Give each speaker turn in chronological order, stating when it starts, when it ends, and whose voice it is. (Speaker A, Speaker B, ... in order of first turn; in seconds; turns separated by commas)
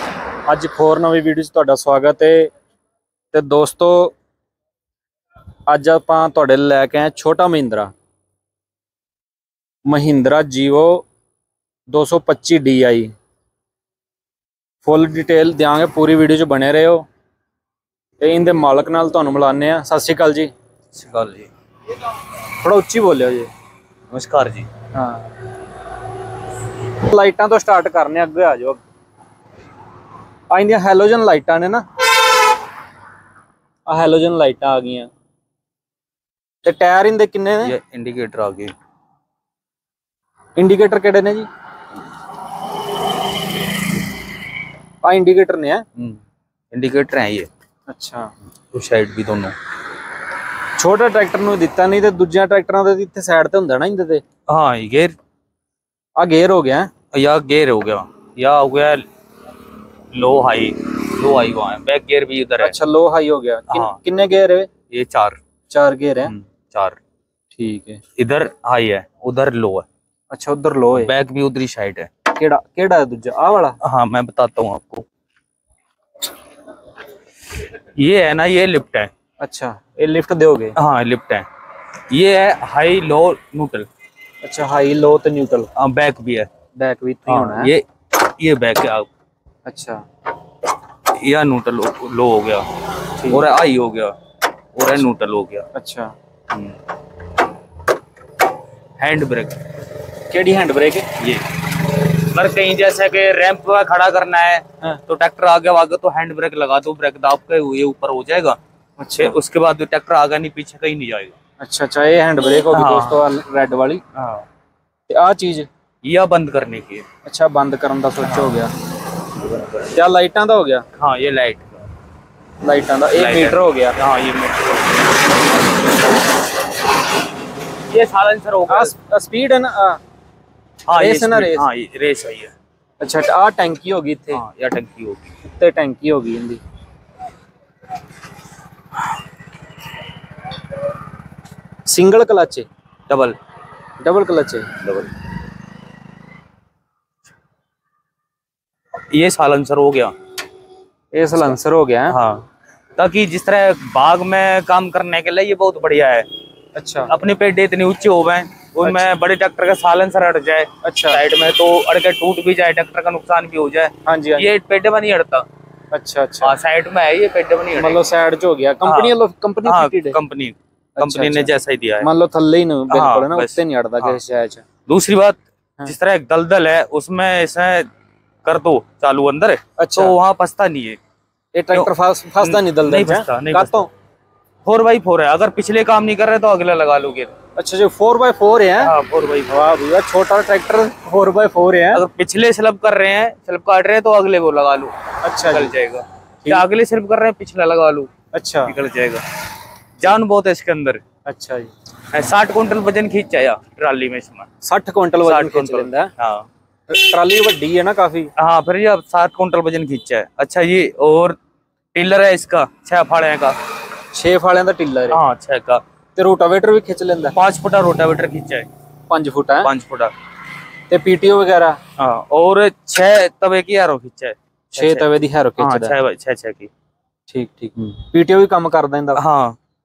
Speaker A: 0.5-2.5, Speaker A: 3.3-4.2, Speaker A: 5.7-7.9, Speaker A: 9.9-11.1, Speaker A: 11.9-13.1, Speaker A: 14.8-17.1, Speaker A: 18.2-20.5, Speaker B: 20.9-21.5, Speaker A: 22.6-23.5, Speaker B: 24.1-24.7, Speaker A: 24.9-25.2, Speaker A: 27.0-28.8, Speaker A: 30.5-31.9, Speaker A: 33.9-35.1, Speaker A: 36.6-37.8, Speaker B: 37.6-38.7, Speaker A: 40.6-41.5, Speaker A: 45.0-45.8, Speaker B: 46.0-46.2, Speaker B: 46.7-47.5, Speaker A: 47.9-48.3, Speaker B: 48.7-49.5, Speaker A: 50.8-54.2, Speaker B: 54.5-55.2, Speaker A: 56.2-56.9, Speaker B: 57.1-59.1, Speaker B: 60.1-62.7, Speaker A: 62.6-64.7, Speaker B: 63.7-64.0, Speaker B: 64.9-65.4, Speaker A: 65.7-66.3, Speaker B: 66.2-67.0, Speaker A: 67.5-68.0, Speaker B: 68.2-69.9, Speaker A: 70.3-71.1, Speaker B: 71.0-72.1, Speaker A: 72.3-73.8, Speaker B: 73.8-75.1, Speaker B: 77.7-79.1, Speaker A: 79.4-80.8, Speaker B: 80.8-81.5, Speaker B: 82.1-83.9, Speaker A: 84.4-85.7, Speaker B: 85.8-86.5, Speaker A: 86.8-87.7, Speaker B: 87.3-89.1, Speaker A: 89.7-90.0, Speaker B: 91.0-92.7, Speaker A: 93.2-93.5, Speaker B: 93.2-94.2, Speaker B: 94.8-95.7, Speaker A: 95.7-96.1, Speaker B: 96.5-96.8, Speaker B: 99.0-99.6, Speaker A: 100.3-101.1, Speaker B: 101.2-101.5, Speaker B: 102.1-108.6, Speaker A: 109.0-109.4, Speaker B: 109.2-111.4, Speaker A: 111.6-114.0, Speaker B: 112.7-113.3, Speaker B: 114.2-114.5, Speaker A: 115.1-115.7, Speaker B: 116.0-117.1, Speaker A: 117.2-118.7, Speaker B: 118.2-118.6, Speaker B: 119.3-119.9, Speaker A: 119.9-120.9, Speaker B: 121.0-121.8, Speaker A: 122.6-124.0, Speaker B: 123.1-124.9, Speaker B: 127.9-128.9, Speaker A: 128.7-130.0, Speaker B: 130.9-132.5, Speaker A: 130.9-131.7, Speaker A: 133.0-134.4, Speaker B: 134.3-135.3, Speaker A: 135.4-136.6, Speaker A: 141.9-142.7, Speaker B: 143.1-143.4, Speaker A: 144.0-144.7, Speaker B: 144.8-145.1, Speaker B: 149.1-150.2, Speaker A: 151.1-152.2, Speaker B: 152.1-152.5, Speaker B: 153.0-156.3, Speaker A: 156.8-157.1, Speaker B: 157.1-165.5, Speaker A: 158.8-159.1, Speaker A: 160.8-161.2, Speaker A: 164.1-164.5, Speaker A: 165.9-166.6, Speaker B: 166.4-168.1, Speaker A: 167.8-170.2, Speaker B: 168.8-172.1, Speaker A: 171.0-174.6, Speaker B: 172.9-174.2, Speaker B: 174.9-177.9, Speaker B: 178.4-181.0, Speaker A: 179.8-180.2, Speaker A: 181.5-183.9, Speaker B: 181.7-183.9, Speaker B: 184.7-187.3, Speaker A: 187.6-188.9, Speaker B: 188.8-189.6, Speaker A: 189.5-192.0, Speaker B: 191.9-198.1, Speaker A: 195.2-195.7, Speaker A: 198.3-198.7, Speaker B: 198.7-199.2, Speaker B: 200.0-201.0, Speaker A: 201.3-201.7, Speaker B: 202.1-204.5, Speaker A: 204.6-206.1, Speaker B: 205.2-206.5, Speaker A: 206.9-208.3, Speaker B: 208.4-211.4, Speaker B: 211.9-213.6, Speaker A: 214.1-215.2, Speaker B: 215.1-215.8, Speaker A: 216.2-217.4, Speaker B: 217.3-218.7, Speaker A: 219.1-219.7, Speaker B: 219.6-220.1, Speaker A: 220.9-221.8, Speaker B: 222.0-225.1, Speaker A: 224.8-225.9, Speaker B: 225.6-226.7, Speaker A: 227.3-229.2, Speaker B: 229.2-229.6